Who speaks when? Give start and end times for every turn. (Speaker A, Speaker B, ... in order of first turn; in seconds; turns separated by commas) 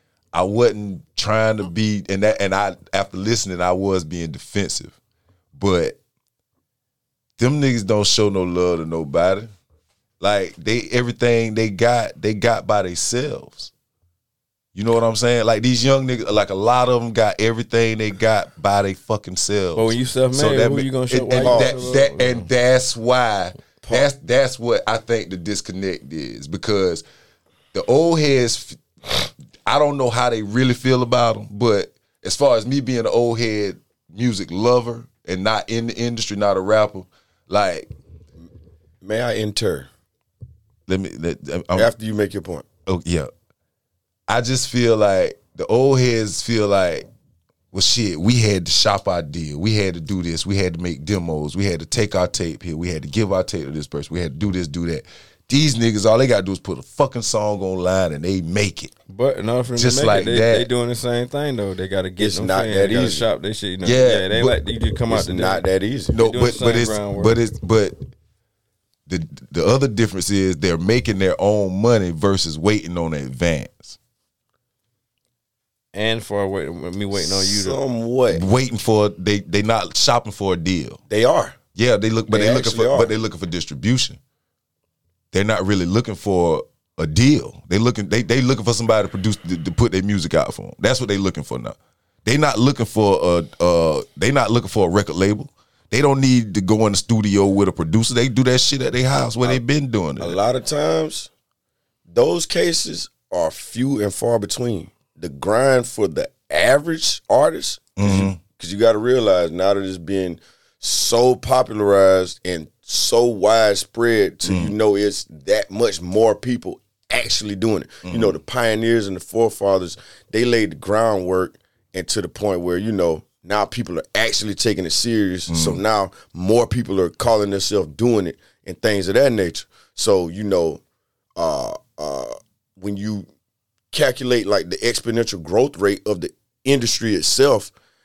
Speaker A: 0.3-5.0, Speaker A: 5.5-6.0, Speaker A: 7.4-9.5, Speaker A: 10.2-13.7, Speaker A: 14.7-27.0, Speaker B: 19.8-22.5, Speaker C: 21.4-22.0, Speaker A: 27.7-37.9, Speaker C: 39.0-39.9, Speaker A: 40.9-41.9, Speaker C: 41.7-42.6, Speaker A: 42.9-43.3, Speaker A: 44.3-47.1, Speaker A: 47.7-58.9, Speaker B: 59.1-65.6, Speaker A: 59.7-60.7, Speaker C: 62.2-63.2, Speaker A: 63.8-64.6, Speaker C: 65.1-66.2, Speaker A: 66.1-68.0, Speaker B: 66.2-67.4, Speaker A: 69.1-74.0, Speaker B: 75.9-77.8, Speaker C: 77.2-78.4, Speaker A: 78.3-81.0, Speaker C: 81.1-81.6, Speaker A: 81.7-84.2, Speaker C: 82.3-83.1, Speaker A: 85.3-100.4, Speaker C: 100.2-101.3, Speaker C: 102.1-130.8, Speaker A: 108.0-108.4, Speaker A: 114.4-114.7, Speaker A: 118.0-118.4, Speaker A: 125.5-125.8, Speaker C: 131.3-133.3, Speaker C: 133.9-137.7